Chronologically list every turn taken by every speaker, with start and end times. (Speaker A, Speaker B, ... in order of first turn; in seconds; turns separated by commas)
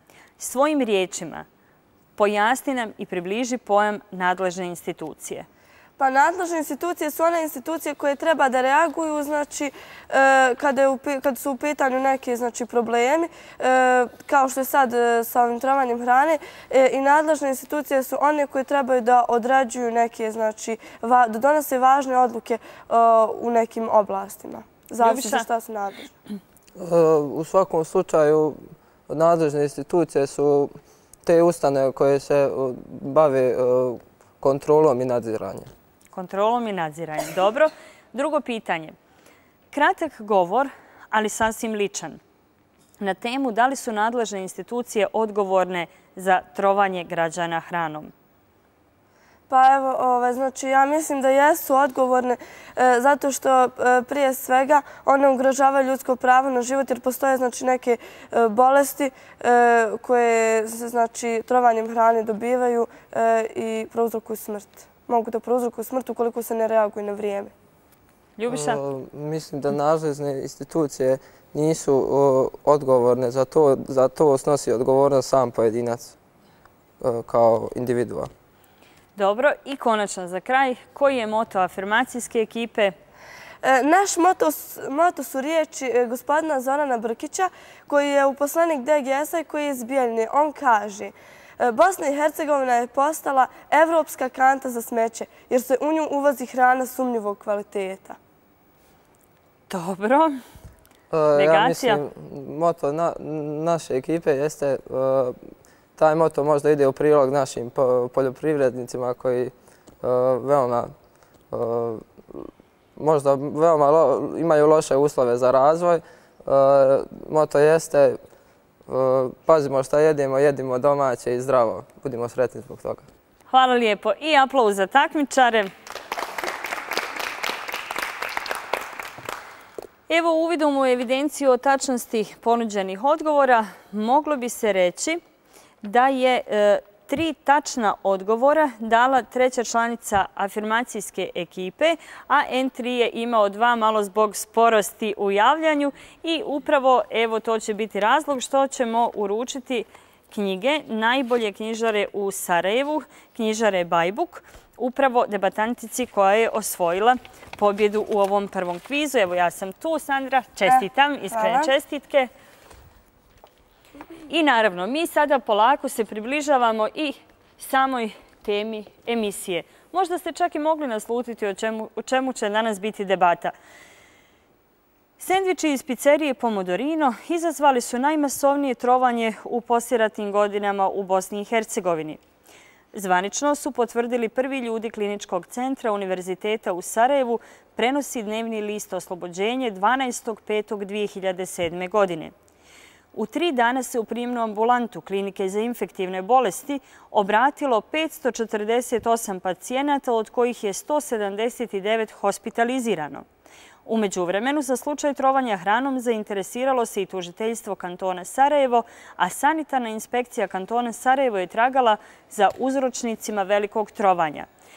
Speaker A: 0.4-1.5, Speaker A: 2.2-5.5, Speaker B: 6.0-26.1, Speaker A: 25.0-25.5, Speaker C: 26.8-35.7, Speaker A: 36.1-39.0, Speaker A: 39.7-42.2, Speaker A: 43.0-48.1, Speaker B: 49.5-67.5, Speaker A: 68.4-68.8, Speaker C: 68.5-76.2, Speaker C: 77.0-78.3, Speaker A: 79.2-82.9, Speaker B: 83.6-98.2, Speaker A: 99.7-100.3, Speaker C: 101.1-105.4, Speaker A: 101.3-102.0, Speaker C: 106.0-110.9, Speaker C: 111.5-118.2, Speaker C: 118.9-123.1, Speaker A: 123.5-125.7, Speaker A: 130.1-135.2, Speaker A: 135.8-162.3, Speaker B: 160.7-161.7, Speaker A: 164.3-173.5, Speaker A: 175.2-182.2, Speaker A: 182.9-192.3, Speaker A: 193.1-203.3, Speaker A: 203.9-214.5